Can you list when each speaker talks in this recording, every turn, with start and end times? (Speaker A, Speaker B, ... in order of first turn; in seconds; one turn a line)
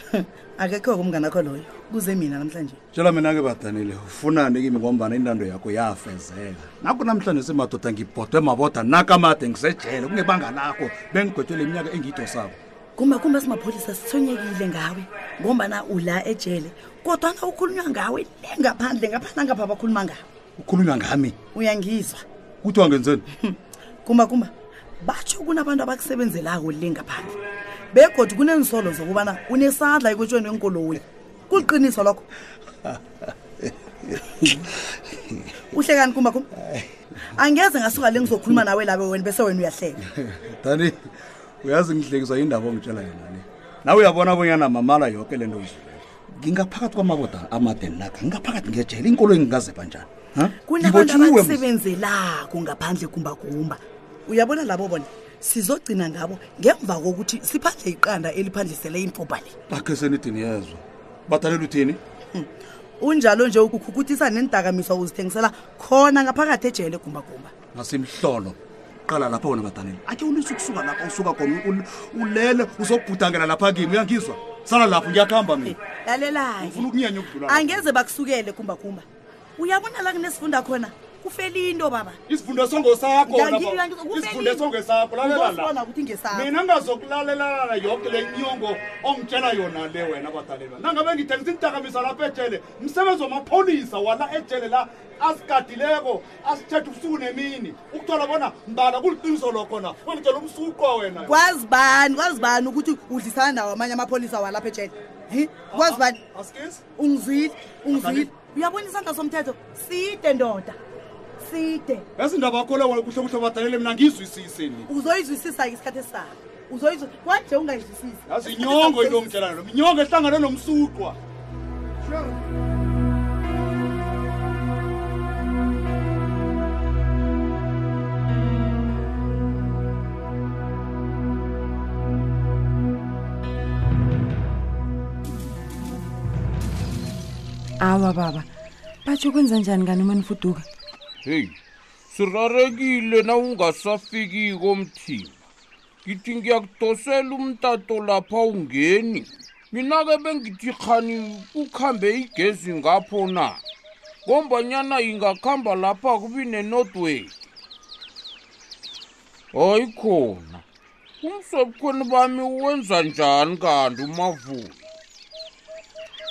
Speaker A: 0.1-2.8
Speaker B: 2.9-12.6
Speaker A: 12.9-20.2
Speaker B: 20.6-21.4
Speaker A: 21.5-22.2
Speaker B: 22.6-23.2
Speaker A: 23.4-27.4
Speaker A: 27.9-32.2
Speaker B: 33.6-34.7
Speaker A: 35.7-36.5
Speaker A: 37.4-40.0
Speaker B: 40.1-41.0
Speaker B: 41.6-51.6
Speaker A: 50.6-59.5
Speaker B: 59.7-62.0
Speaker A: 63.0-67.5
Speaker B: 67.8-75.8
Speaker A: 75.7-76.9
Speaker B: 76.6-77.8
Speaker A: 77.4-79.0
Speaker A: 79.6-82.2
Speaker B: 82.3-85.7
Speaker A: 83.2-84.7
Speaker A: 85.2-86.5
Speaker B: 86.3-101.4
Speaker A: 101.2-106.2
Speaker B: 105.7-106.8
Speaker A: 106.9-110.8
Speaker B: 108.0-108.3
Speaker A: 111.4-112.1
Speaker B: 112.2-114.9
Speaker A: 114.9-119.3
Speaker B: 118.3-121.2
Speaker B: 122.0-122.3
Speaker C: 137.8-138.5
Speaker C: 139.1-140.7
Speaker D: 141.2-141.6
Speaker D: 142.1-145.3
Speaker D: 146.0-153.6
Speaker D: 154.2-157.3
Speaker D: 159.5-160.6
Speaker D: 161.2-164.8